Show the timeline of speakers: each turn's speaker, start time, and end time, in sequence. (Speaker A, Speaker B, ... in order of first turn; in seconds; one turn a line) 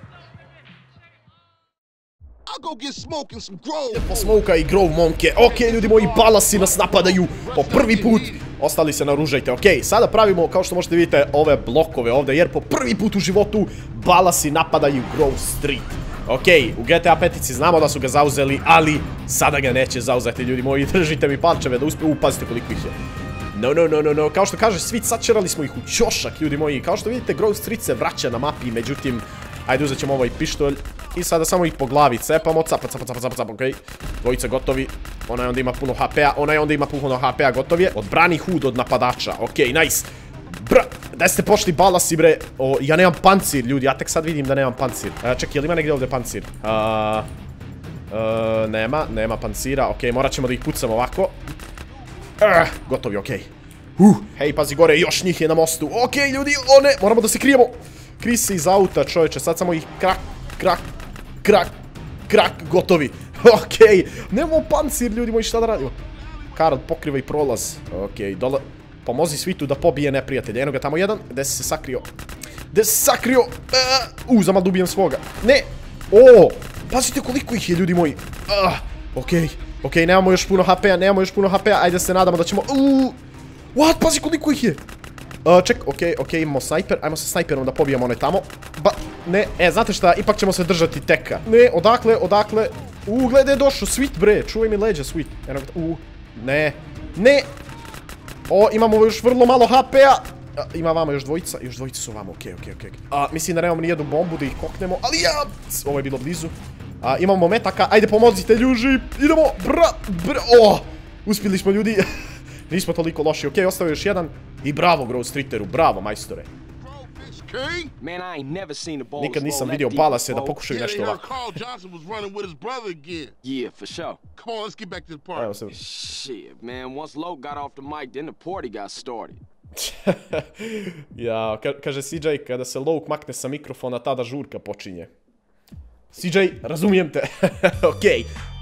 Speaker A: 2.5-4.4
Speaker B: 3.9-22.9
Speaker A: 5.4-8.4
Speaker B: 23.5-47.3
Speaker B: 48.1-51.4
Speaker B: 52.4-60.8
Speaker B: 61.4-61.7
Speaker B: 62.3-66.0
Speaker B: 66.5-72.1
Speaker B: 72.7-83.2
Speaker B: 83.7-84.8
Speaker B: 85.4-97.5
Speaker B: 98.5-112.1
Speaker B: 112.7-116.5
Speaker A: 116.8-117.9
Speaker C: 118.0-120.6
Speaker B: 119.2-121.3
Speaker A: 120.6-123.3
Speaker C: 123.4-124.2
Speaker A: 124.4-125.5
Speaker B: 125.3-125.8
Speaker C: 125.7-129.4
Speaker B: 129.8-135.1
Speaker B: 136.1-138.3